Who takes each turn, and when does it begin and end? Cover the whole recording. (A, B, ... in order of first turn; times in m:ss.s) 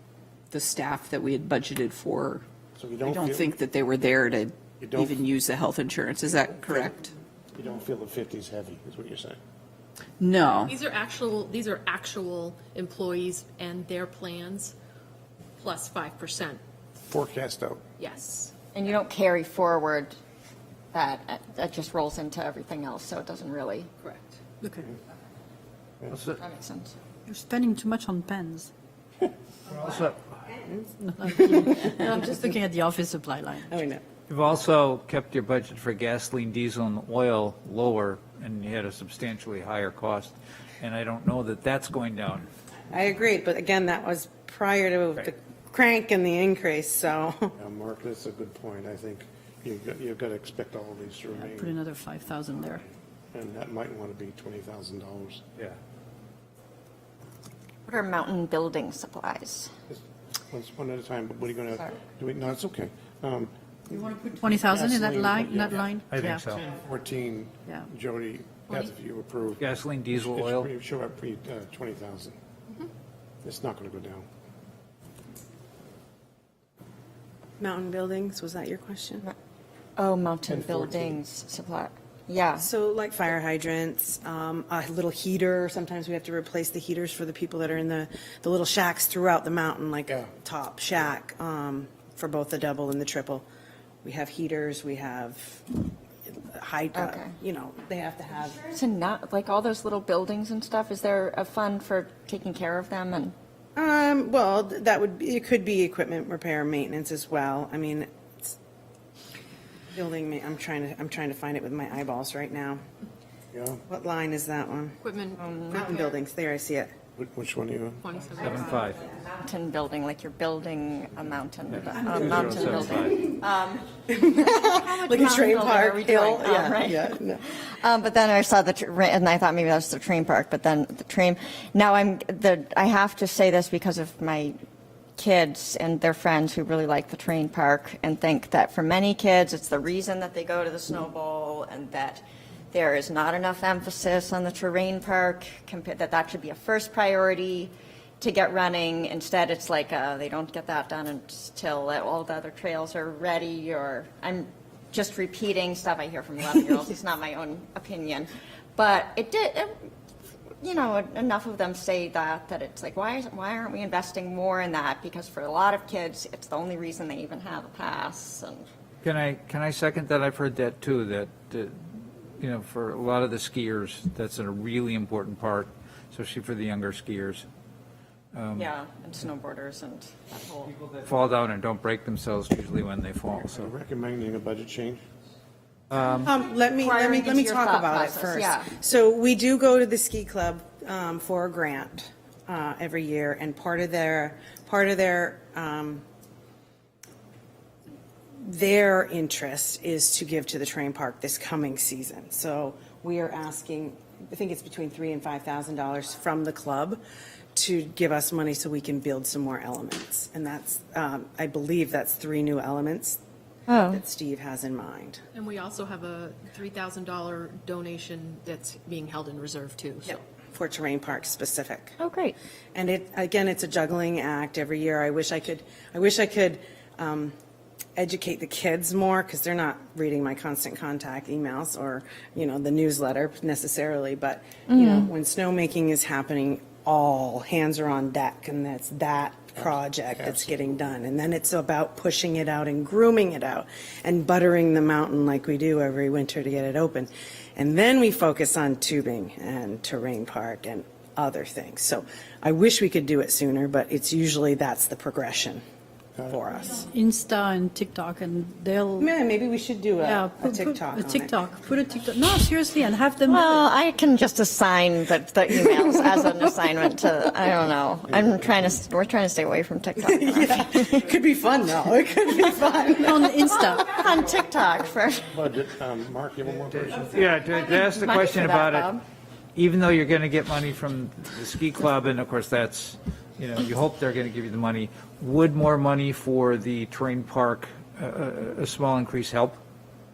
0:00.5-0:02.4 A
0:02.8-0:03.6 B
0:03.0-0:07.1 A
0:04.8-0:05.2 B
0:07.5-0:09.4 B
0:10.2-0:10.8 A
0:10.7-0:14.7 C
0:15.6-0:16.6 C
0:17.0-0:17.8 B
0:18.0-0:18.5 C
0:18.7-0:20.1 D
0:20.9-0:23.9 D
0:24.0-0:24.5 C
0:24.5-0:24.9 E
0:26.1-0:26.4 F
0:26.4-0:26.9 D
0:27.3-0:28.7 E
0:29.7-0:30.2 F
0:31.0-0:33.8 E
0:31.4-0:32.0 G
0:33.7-0:34.0 G
0:34.3-0:42.5 F
0:42.9-0:47.5 G
0:47.6-0:51.8 B
0:51.4-0:52.8 E
0:53.3-0:55.4 B
0:57.8-0:59.7 D
0:59.9-1:12.4 B
1:04.2-1:06.5 E
1:06.1-1:06.6 F
1:09.6-1:10.7 F
1:13.4-1:14.2 B
1:17.6-1:19.2 G
1:20.0-1:22.7 D
1:20.5-1:21.2 B
1:22.6-1:33.4 G
1:34.0-1:38.6 G
1:36.9-1:37.3 D
1:38.7-1:43.3 D
1:43.7-1:48.5 G
1:49.9-1:52.8 G
1:53.5-1:53.8 B
1:53.9-1:55.0 G
1:55.0-1:55.8 C
1:55.7-1:56.9 G
1:57.2-1:58.0 B
1:58.0-1:58.8 C
1:58.4-1:59.0 F
1:58.8-2:03.9 D
2:02.0-2:03.2 F
2:04.1-2:07.4 G
2:04.4-2:14.5 D
2:15.2-2:39.9 D
2:40.6-2:48.6 D
2:49.0-2:57.4 F
2:58.3-2:58.7 F
2:58.5-3:00.7 D
3:00.6-3:03.7 F
3:03.5-3:05.0 B
3:05.9-3:06.3 F
3:06.1-3:16.0 G
3:06.8-3:08.7 D
3:18.4-3:27.0 G
3:27.5-3:33.2 G
3:33.7-3:34.0 D
3:33.9-3:35.2 G
3:35.3-3:40.2 C
3:40.0-3:42.0 G
3:42.0-3:42.3 D
3:42.7-3:47.3 G
3:48.0-4:15.6 G
3:54.7-3:55.1 D
3:59.6-4:00.7 B
4:16.3-4:16.9 G
4:16.8-4:19.1 E
4:19.0-4:21.4 G
4:20.0-4:23.6 E
4:23.2-4:31.0 D
4:28.1-4:28.7 B
4:30.0-4:33.3 G
4:33.0-4:33.8 E
4:33.4-4:35.2 D
4:35.3-4:37.4 B
4:36.9-4:38.9 F
4:37.6-4:39.0 D
4:39.6-4:49.6 F